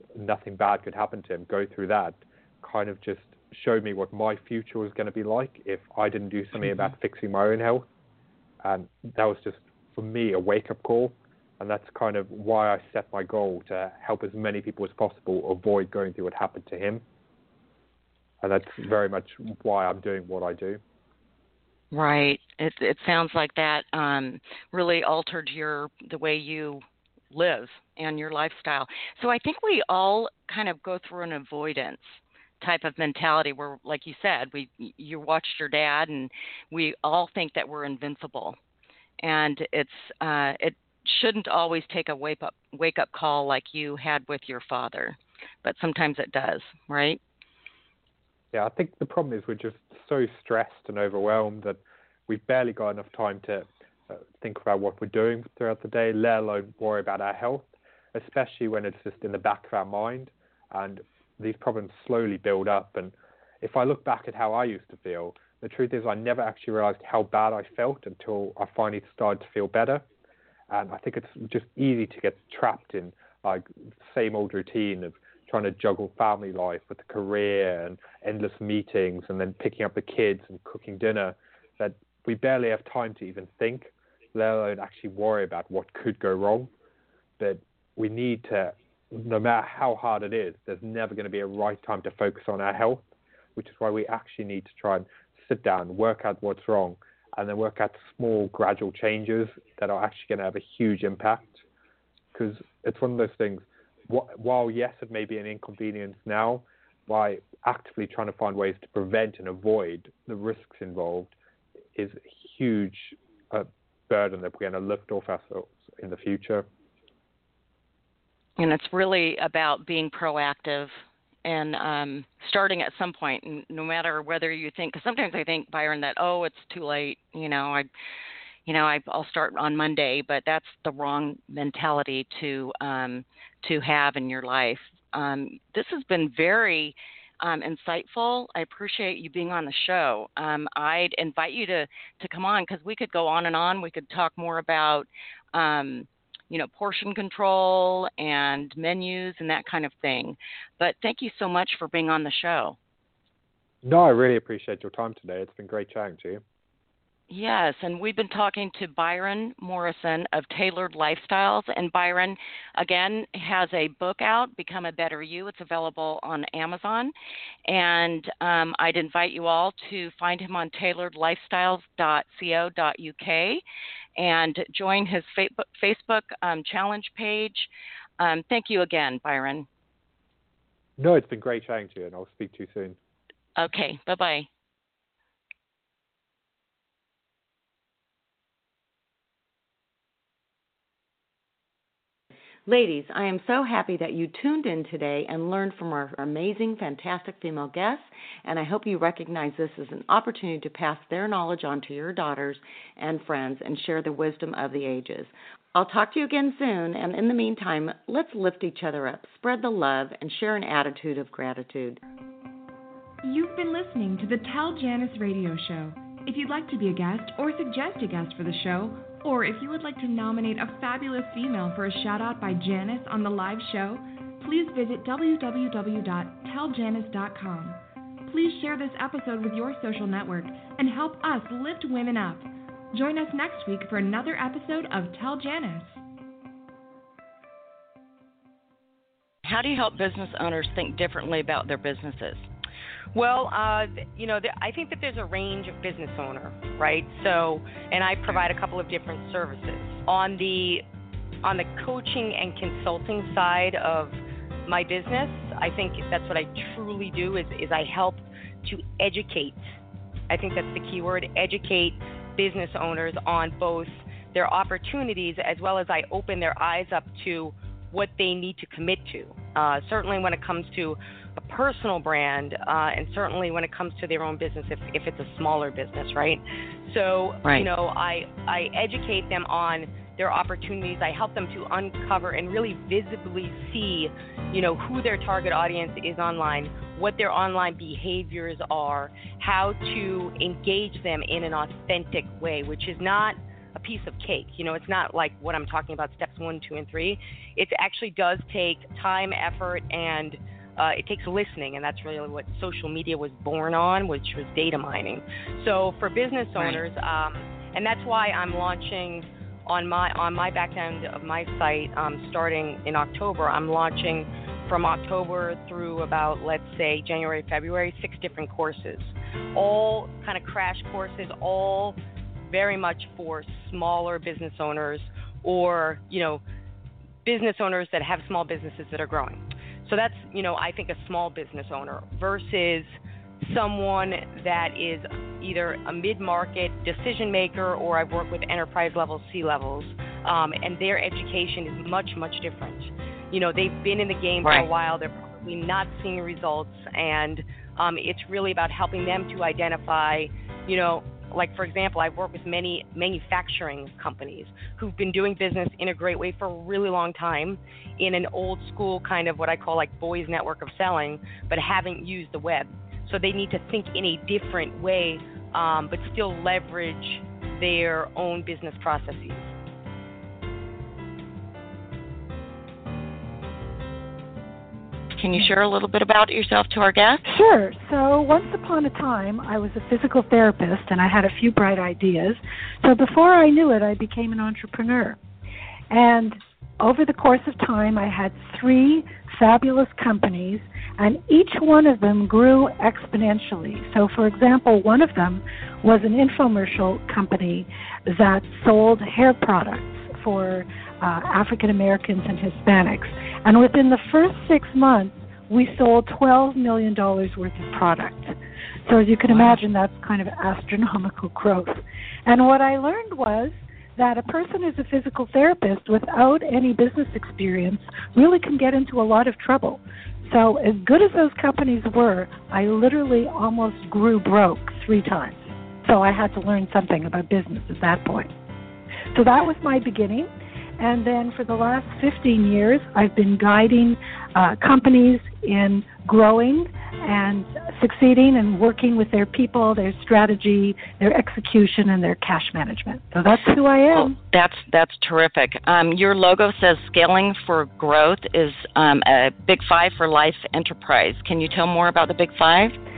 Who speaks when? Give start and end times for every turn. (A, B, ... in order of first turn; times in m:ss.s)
0:00.1-0:07.9 A
0:08.6-0:17.0 A
0:18.4-0:20.8 A
0:21.9-0:38.6 B
0:39.2-0:47.2 B
0:48.5-1:10.0 A
1:10.7-1:26.7 A
1:27.4-1:33.0 A
1:33.6-1:41.6 A
1:42.3-1:51.3 A
1:51.9-1:56.6 A
1:58.6-2:00.9 B
2:01.4-2:07.9 B
2:08.6-2:32.8 B
2:33.8-2:36.4 A
2:37.3-2:47.1 B
2:47.7-2:53.6 B
2:54.2-2:59.7 B
3:01.0-3:03.0 A
3:03.6-3:04.5 B
3:12.6-3:32.0 C
3:33.2-3:56.0 D
3:59.4-4:02.5 B
4:03.1-4:10.8 E
4:11.4-4:19.7 E
4:20.3-5:26.4 E
5:06.6-5:06.8 B
5:27.2-6:09.5 E
5:44.4-5:44.7 B
6:15.2-6:17.2 B
6:17.2-6:25.2 F
6:25.9-6:48.3 F
6:48.8-7:08.3 F
6:49.3-6:49.6 B
7:09.1-7:24.2 F
7:23.9-7:32.8 B